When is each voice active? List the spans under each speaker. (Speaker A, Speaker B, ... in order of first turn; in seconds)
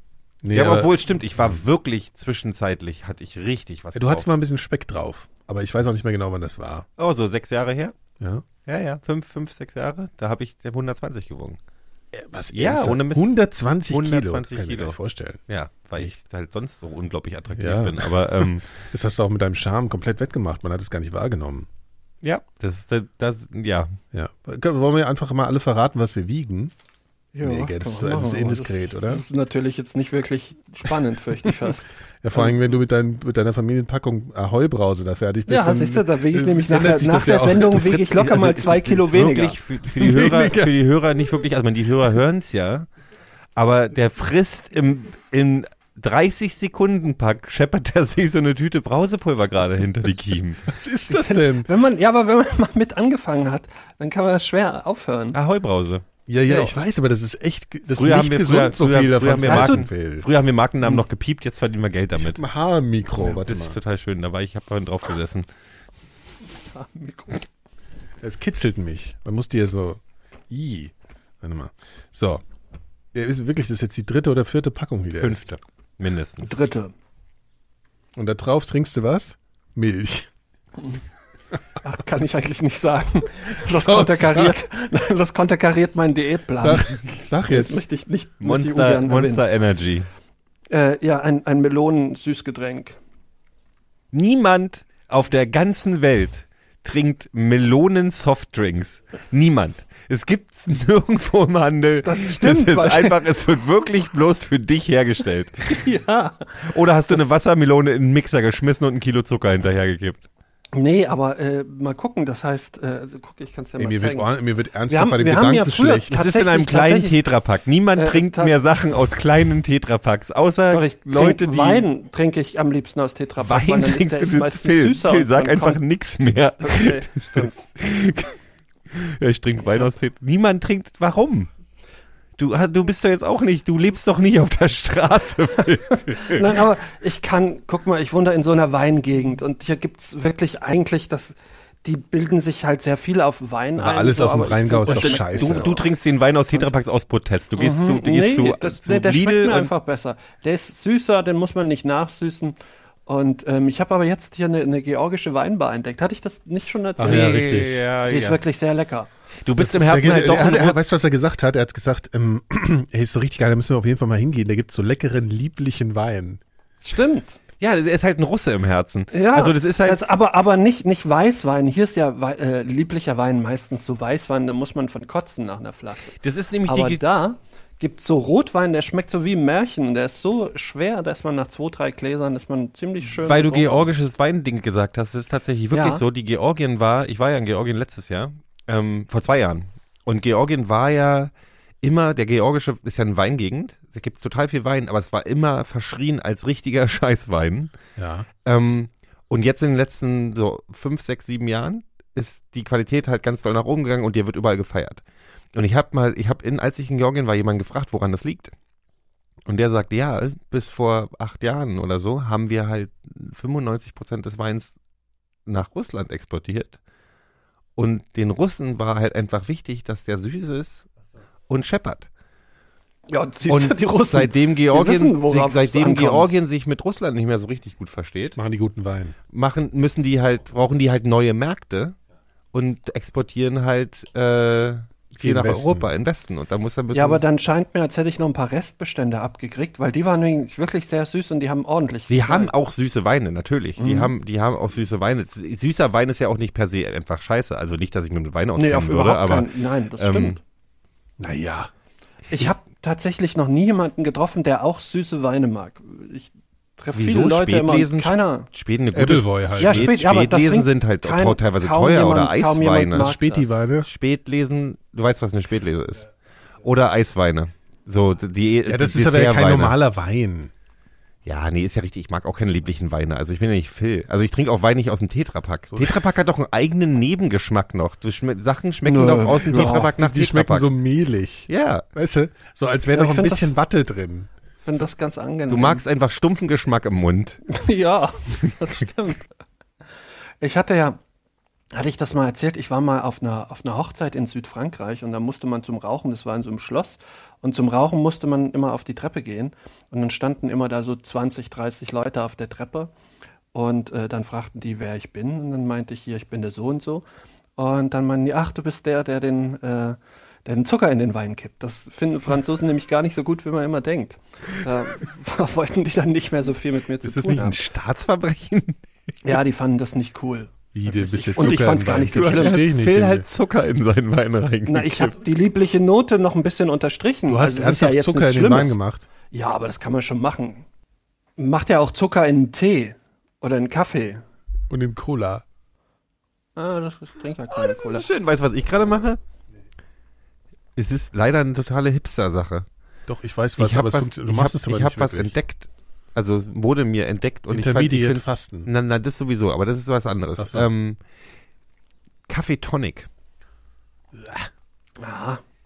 Speaker A: 0.4-1.6, 3.9-6.8, 8.2-8.4, 12.1-15.4, 17.6-21.7, 24.1-26.7, 27.4-29.2, 32.2-38.0, 40.0-40.7, 50.7-51.7, 56.3-60.3, 62.1-63.8, 68.2-72.4, 73.1-75.5, 78.2-80.3, 83.8-84.5, 86.6-87.8, 113.8-116.2, 143.8-145.7, 157.0-157.8, 159.6-166.4, 198.0-198.3, 228.3-229.1, 235.2-235.8, 251.2-251.7, 258.9-259.9, 263.0-263.9, 268.6-270.5, 279.5-284.3, 320.7-323.2, 327.3-329.1, 334.7-335.4, 343.1-345.3, 347.5-348.7, 350.4-350.7, 354.1-354.5
Speaker B: 0.5-4.3, 7.0-7.9, 8.7-11.6, 12.5-13.3, 13.9-15.0, 15.5-18.7, 22.2-23.9, 37.7-42.9, 43.5-50.6, 55.3-56.0, 57.9-62.4, 63.1-65.5, 75.2-76.5, 88.4-90.1, 94.1-105.8, 106.6-110.3, 116.1-121.9, 123.4-128.3, 128.9-131.5, 132.4-136.6, 144.9-149.7, 157.0-158.4, 159.4-160.8, 167.6-170.0, 176.2-177.0, 183.2-197.7, 198.4-205.0, 205.5-208.5, 209.4-214.7, 215.5-216.8, 217.8-220.9, 221.5-222.1, 223.4-228.4, 229.3-231.9, 232.5-237.2, 242.1-250.4, 256.9-263.2, 263.8-266.1, 266.6-269.8, 271.2-280.7, 281.5-281.8, 285.5-287.4, 317.0-318.8, 321.4-325.2, 337.6-339.2, 340.8-342.6, 343.6-351.0, 352.3-353.1
Speaker C: 27.3-32.5, 35.5-39.6, 51.1-55.4, 59.4-59.9, 66.6-67.4, 76.4-76.9, 81.8-89.4, 90.7-93.0, 102.0-103.2, 105.7-106.5, 110.7-114.3, 114.9-117.2, 118.0-118.5, 120.7-125.8, 126.6-127.6, 129.6-129.9, 136.2-145.9, 147.6-152.6, 153.1-159.1, 166.8-167.4, 169.1-176.1, 176.7-183.9, 185.7-186.0, 223.1-226.3, 236.9-242.5, 243.8-244.1, 248.6-250.4, 252.3-258.5, 259.6-263.6, 278.9-279.9, 282.9-283.5, 284.6-285.8, 287.5-289.3, 290.4-291.0, 291.7-302.9, 303.5-307.0, 307.6-317.6, 319.2-322.6, 324.7-328.8, 329.3-330.6, 331.4-334.2, 336.6-338.0, 355.0-355.4